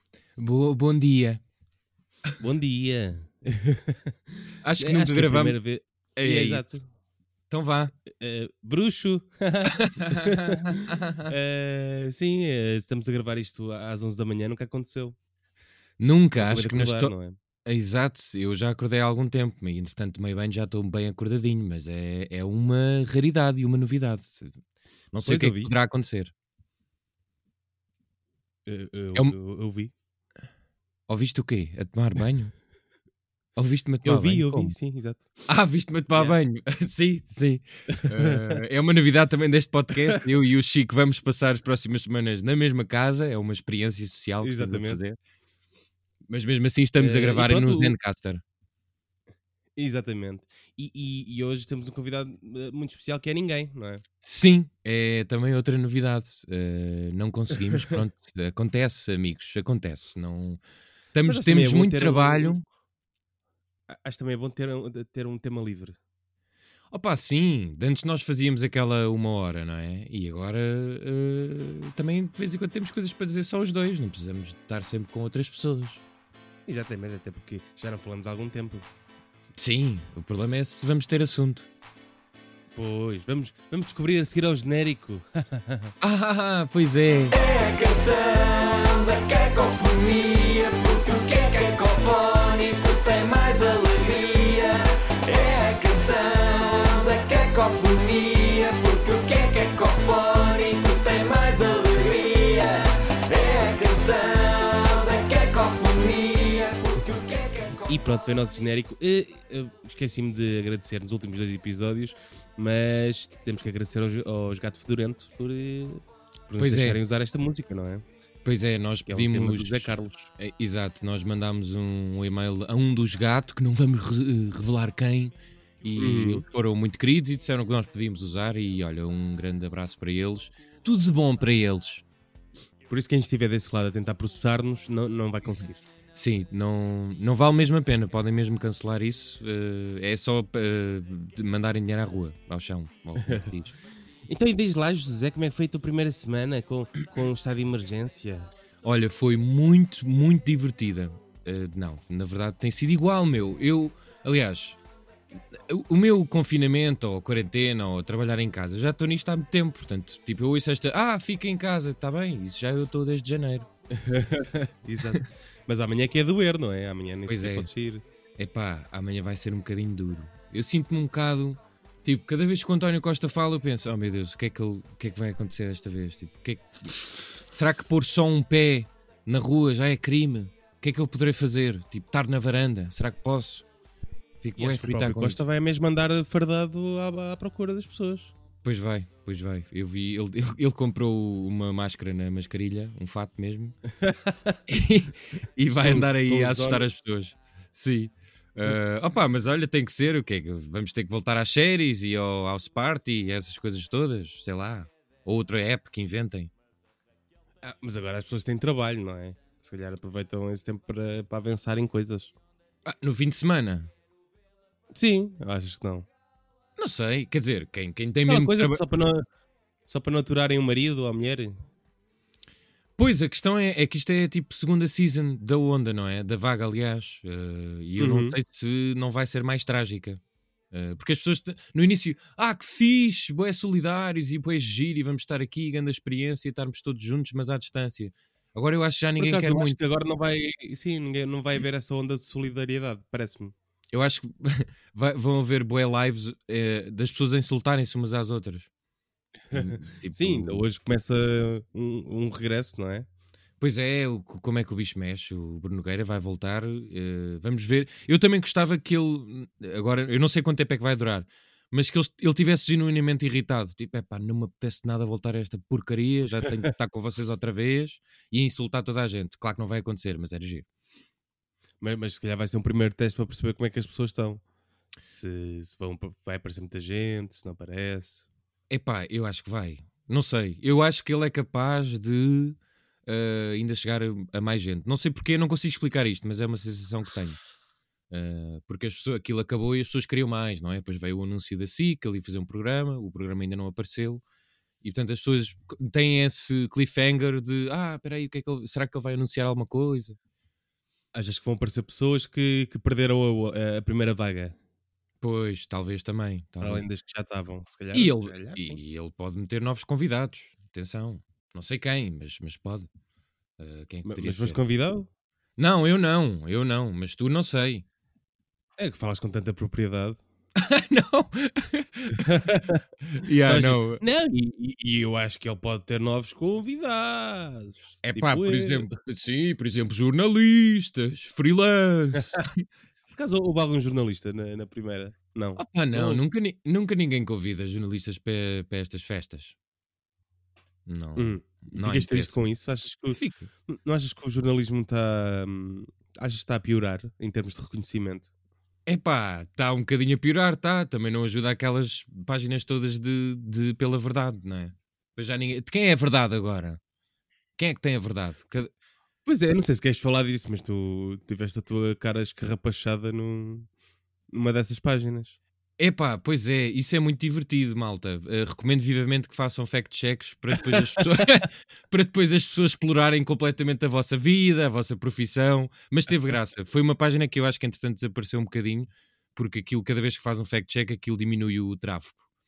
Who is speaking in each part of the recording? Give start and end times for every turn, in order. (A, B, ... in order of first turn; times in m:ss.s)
0:00.4-0:01.4 A
0:02.4-0:06.8 B
0:04.6-0:05.6 A
0:06.2-0:06.6 A
0:07.5-0:07.9 A
0:08.1-0:15.2 B
0:09.7-0:11.3 A
0:16.0-0:17.1 A
0:16.4-0:17.4 B
0:17.6-0:24.6 A
0:25.1-0:26.3 A
0:25.2-0:25.7 B
0:28.6-0:29.9 B
0:31.1-0:32.5 A
0:33.6-0:34.7 A
0:34.0-0:35.3 B
0:35.5-0:45.2 A
0:37.9-0:38.6 B
0:44.4-0:45.0 B
0:46.3-0:48.4 A
0:47.0-0:47.9 B
0:49.8-0:54.0 B
0:54.2-1:00.6 A
1:01.1-1:02.6 A
1:01.2-1:02.6 B
1:03.9-1:06.0 B
1:06.9-1:16.0 A
1:16.7-1:18.8 B
1:19.6-1:21.7 A
1:22.7-1:25.9 B
1:26.0-1:27.4 A
1:27.3-1:48.0 C
1:47.9-1:58.0 B
1:56.6-1:57.0 A
1:58.4-2:12.0 A
1:59.1-2:00.3 B
2:06.0-2:06.4 B
2:12.9-2:15.8 B
2:16.1-2:23.7 A
2:23.2-2:23.5 B
2:24.3-2:28.5 B
2:28.8-2:34.8 A
2:35.5-2:43.7 A
2:43.9-2:48.0 B
2:47.3-2:47.7 A
2:48.4-3:03.6 A
3:04.4-3:05.4 A
3:04.6-3:08.3 B
3:08.6-3:13.8 A
3:14.0-3:14.6 B
3:14.7-3:26.5 A
3:15.7-3:16.9 B
3:27.6-3:32.3 B
3:32.8-3:33.9 A
3:34.9-3:36.1 B
3:36.8-3:38.8 A
3:38.2-3:39.2 B
3:39.9-3:41.6 B
3:43.0-3:59.8 A
3:48.0-3:48.4 B
3:59.2-4:03.5 B
4:03.9-4:08.7 A
4:09.5-4:13.1 B
4:09.5-4:10.6 A
4:13.6-4:30.6 A
4:31.8-4:34.4 B
4:35.0-4:38.3 B
4:38.7-4:47.4 A
4:48.1-4:54.2 A
4:54.8-5:00.2 A
5:01.1-5:04.6 B
5:05.2-5:06.8 A
5:06.6-5:08.8 B
5:07.9-5:12.9 A
5:13.6-5:14.6 A
5:14.0-5:15.1 B
5:15.6-5:17.8 A
5:18.8-5:20.2 B
5:20.5-5:22.6 A
5:22.1-5:22.8 B
5:23.1-5:24.0 A
5:23.4-5:28.9 B
5:28.0-5:32.6 A
5:32.1-5:32.5 B
5:33.1-5:36.2 B
5:35.6-5:39.5 A
5:40.8-5:42.4 A
5:41.2-5:48.3 B
5:43.1-5:43.5 A
5:48.8-5:56.8 A
5:57.6-5:58.7 A
5:59.2-6:03.7 B
6:04.3-6:05.4 B
6:05.8-6:22.2 A
6:10.6-6:11.2 B